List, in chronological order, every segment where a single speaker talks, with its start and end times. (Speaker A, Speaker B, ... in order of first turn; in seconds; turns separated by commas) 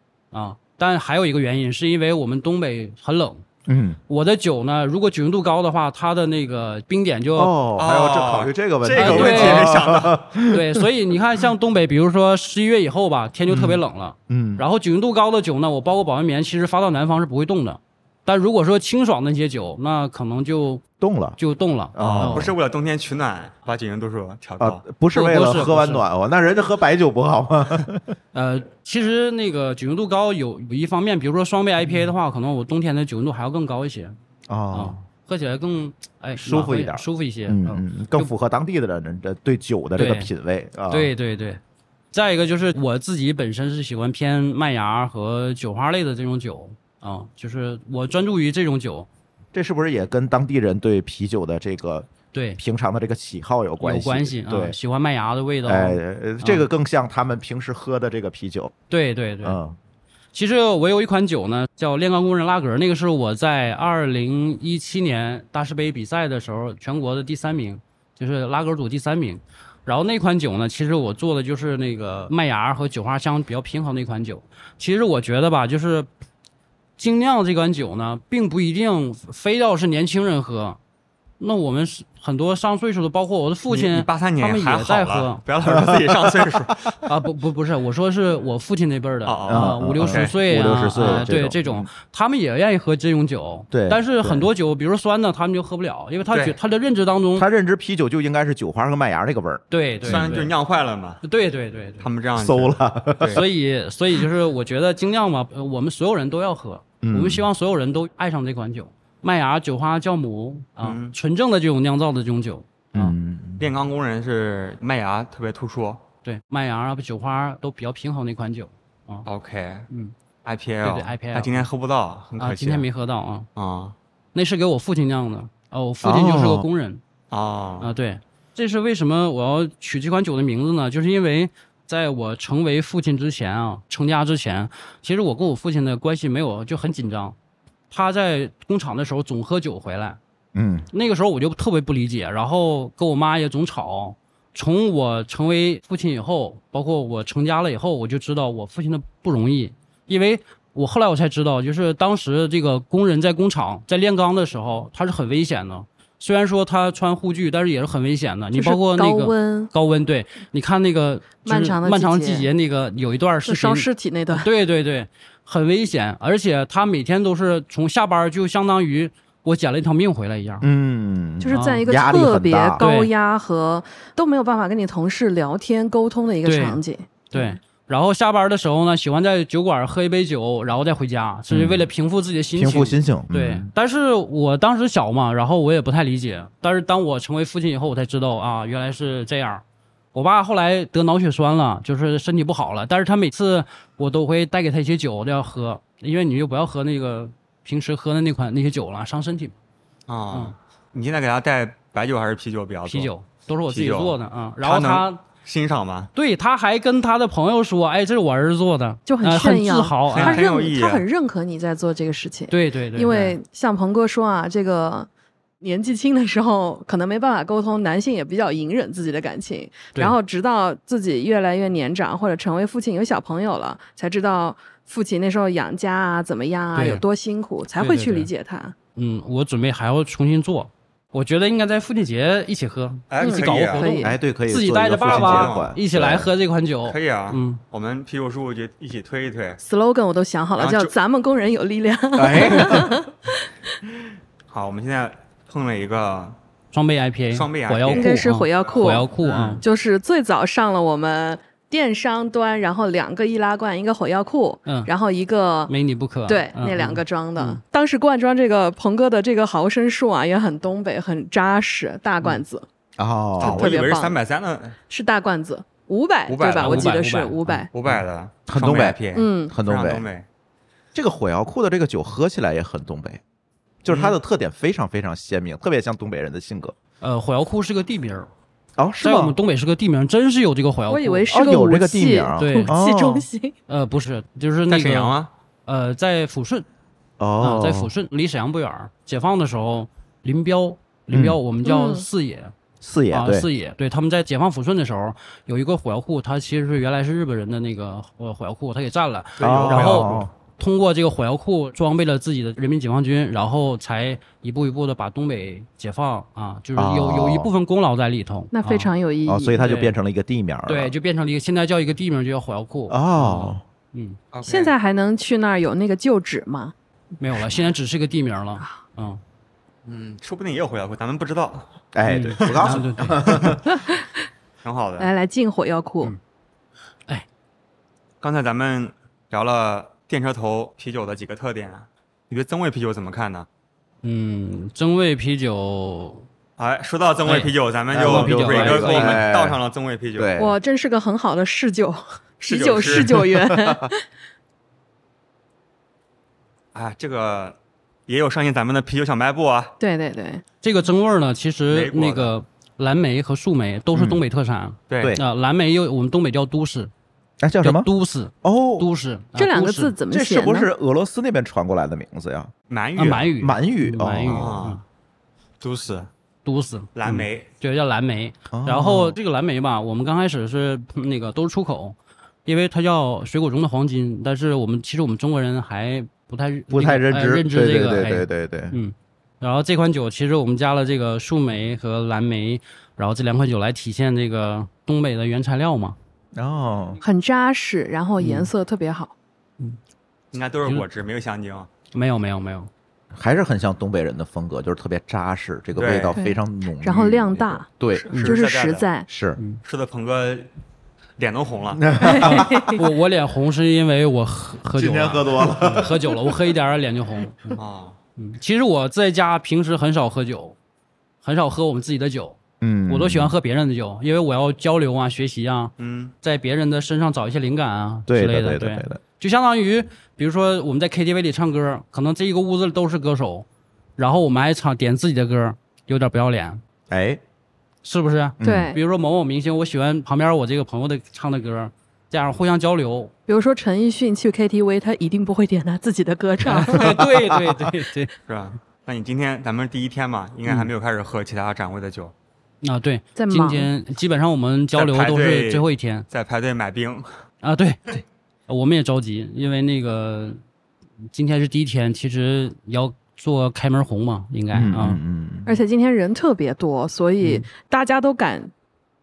Speaker A: 0.3-3.4, Speaker B: 3.7-4.0, Speaker A: 4.1-7.5, Speaker B: 7.3-10.8, Speaker C: 7.8-10.2, Speaker A: 8.9-9.8, Speaker A: 10.5-20.8, Speaker B: 13.5-14.7, Speaker B: 21.0-21.4, Speaker A: 21.4-22.5, Speaker B: 21.9-22.5, Speaker C: 22.0-24.8, Speaker B: 24.6-28.1, Speaker A: 25.1-26.0, Speaker A: 28.3-34.1, Speaker B: 34.5-35.0, Speaker A: 34.7-38.3, Speaker B: 36.4-41.1, Speaker A: 40.0-40.3, Speaker A: 40.9-41.6, Speaker A: 42.1-49.1, Speaker B: 49.5-54.8, Speaker A: 52.3-52.6, Speaker A: 53.8-56.7, Speaker B: 55.6-58.7, Speaker A: 58.9-59.6, Speaker B: 59.4-59.8, Speaker A: 60.3-76.1, Speaker A: 77.0-80.8, Speaker A: 81.4-85.4, Speaker C: 83.7-87.0, Speaker B: 85.7-86.6, Speaker A: 87.0-97.5, Speaker C: 89.2-90.3, Speaker B: 89.5-91.9, Speaker B: 93.7-94.5, Speaker C: 96.3-96.6, Speaker B: 97.3-100.4, Speaker A: 99.7-100.5, Speaker C: 100.0-101.2, Speaker A: 101.2-102.1, Speaker C: 102.0-103.4, Speaker B: 102.3-103.4, Speaker A: 103.3-113.1, Speaker B: 107.0-107.4, Speaker C: 110.8-111.1, Speaker B: 112.9-113.7, Speaker C: 113.6-116.0, Speaker A: 116.2-119.3, Speaker C: 119.2-119.9, Speaker C: 120.4-122.8, Speaker A: 120.8-121.7, Speaker A: 122.4-123.5, Speaker C: 123.5-123.9, Speaker A: 124.3-127.0, Speaker B: 126.0-126.6, Speaker C: 127.3-127.9, Speaker A: 127.8-137.3, Speaker A: 137.9-140.2, Speaker B: 140.5-140.9, Speaker A: 140.9-170.7, Speaker D: 158.5-159.7, Speaker D: 161.4-162.5, Speaker D: 163.4-164.5, Speaker B: 170.6-172.8, Speaker D: 171.4-177.6, Speaker A: 171.5-171.8, Speaker A: 172.8-173.1, Speaker A: 176.4-176.8, Speaker A: 177.3-189.6, Speaker B: 181.5-181.9, Speaker B: 182.5-183.7, Speaker A: 190.1-199.5, Speaker C: 200.1-203.1, Speaker A: 202.8-205.2, Speaker C: 203.7-206.1, Speaker A: 206.1-210.4, Speaker D: 209.1-215.1, Speaker C: 210.1-211.0, Speaker A: 212.5-213.3, Speaker D: 215.6-228.7, Speaker A: 226.7-227.0, Speaker A: 227.8-228.3, Speaker A: 228.9-237.6, Speaker C: 233.1-233.9, Speaker D: 233.2-234.1, Speaker B: 234.0-236.3, Speaker C: 235.1-235.7, Speaker C: 236.9-239.6, Speaker D: 239.6-243.5, Speaker C: 240.6-240.9, Speaker B: 242.2-243.0, Speaker C: 244.5-246.3, Speaker A: 246.7-249.6, Speaker C: 247.3-248.1, Speaker D: 247.9-249.1, Speaker C: 248.7-249.6, Speaker D: 249.6-255.7, Speaker A: 255.7-257.6, Speaker D: 256.3-262.6, Speaker B: 263.0-263.8, Speaker D: 263.4-264.1, Speaker C: 263.4-264.8, Speaker D: 264.9-267.7, Speaker C: 266.3-267.0, Speaker A: 266.6-267.4, Speaker C: 267.7-270.2, Speaker B: 268.5-270.1, Speaker D: 269.1-269.5, Speaker B: 270.9-273.2, Speaker B: 273.8-276.7, Speaker C: 273.9-274.2, Speaker A: 277.0-278.3, Speaker B: 278.8-279.4, Speaker A: 279.0-281.3, Speaker D: 280.9-283.5, Speaker B: 281.3-283.3, Speaker A: 282.4-282.7, Speaker A: 283.7-286.6, Speaker C: 284.7-285.3, Speaker B: 287.2-287.9, Speaker A: 287.4-292.5, Speaker B: 291.1-291.4, Speaker D: 291.6-292.1, Speaker B: 292.8-293.5, Speaker A: 293.1-308.9, Speaker C: 299.4-300.2, Speaker B: 299.4-300.3, Speaker B: 306.7-307.5, Speaker D: 308.5-309.6, Speaker B: 309.2-310.9, Speaker A: 309.6-309.9, Speaker A: 310.7-314.2, Speaker B: 312.9-313.6, Speaker C: 314.3-314.7, Speaker D: 314.4-316.7, Speaker A: 317.2-319.2, Speaker C: 319.9-321.6, Speaker B: 321.9-323.8, Speaker A: 322.0-323.4, Speaker C: 322.4-323.4, Speaker D: 323.6-324.1, Speaker C: 324.6-325.1, Speaker D: 325.0-326.1, Speaker C: 328.2-333.5, Speaker A: 334.0-336.2, Speaker C: 336.6-340.3, Speaker A: 337.2-339.2, Speaker B: 337.9-339.6, Speaker B: 340.1-340.6, Speaker D: 340.4-344.0, Speaker C: 342.4-343.3, Speaker B: 343.2-343.9, Speaker C: 346.7-349.7, Speaker D: 349.8-350.4, Speaker A: 350.6-356.9, Speaker C: 351.7-352.3, Speaker B: 353.9-354.2, Speaker C: 354.9-355.2, Speaker B: 357.4-357.9, Speaker A: 357.6-359.9, Speaker B: 358.4-358.9, Speaker D: 359.4-360.7, Speaker B: 360.1-362.5, Speaker C: 362.7-363.3, Speaker A: 362.9-364.8, Speaker B: 363.4-364.6, Speaker C: 364.3-364.8, Speaker C: 365.6-366.1, Speaker A: 366.4-366.9, Speaker C: 366.9-367.5, Speaker A: 367.6-385.9, Speaker B: 368.5-369.2, Speaker B: 376.7-378.7, Speaker B: 386.3-387.0, Speaker D: 387.0-389.1, Speaker A: 388.2-388.5, Speaker C: 390.3-391.7, Speaker A: 391.9-392.7, Speaker B: 393.1-398.1, Speaker C: 395.7-396.2, Speaker D: 396.1-397.6, Speaker C: 398.0-398.9, Speaker A: 398.1-398.4, Speaker D: 398.2-399.1, Speaker B: 399.1-399.4, Speaker C: 399.6-400.5, Speaker C: 401.2-401.9, Speaker B: 401.7-402.8, Speaker D: 402.0-402.8, Speaker A: 402.3-407.6, Speaker B: 404.8-406.1, Speaker C: 407.6-408.0, Speaker A: 408.2-410.6, Speaker A: 411.2-412.4, Speaker B: 412.6-413.3, Speaker A: 412.9-423.4, Speaker C: 415.8-416.1, Speaker B: 418.1-419.0, Speaker A: 424.0-426.6, Speaker B: 426.9-427.2, Speaker A: 427.8-433.1, Speaker B: 428.4-428.7, Speaker D: 428.4-428.8, Speaker D: 433.3-437.0, Speaker A: 436.4-438.1, Speaker B: 436.8-437.5, Speaker C: 438.3-442.1, Speaker A: 442.6-446.1, Speaker D: 443.1-443.7, Speaker C: 444.7-447.1, Speaker A: 447.4-450.4, Speaker A: 451.1-455.0, Speaker B: 454.5-455.6, Speaker D: 455.4-458.5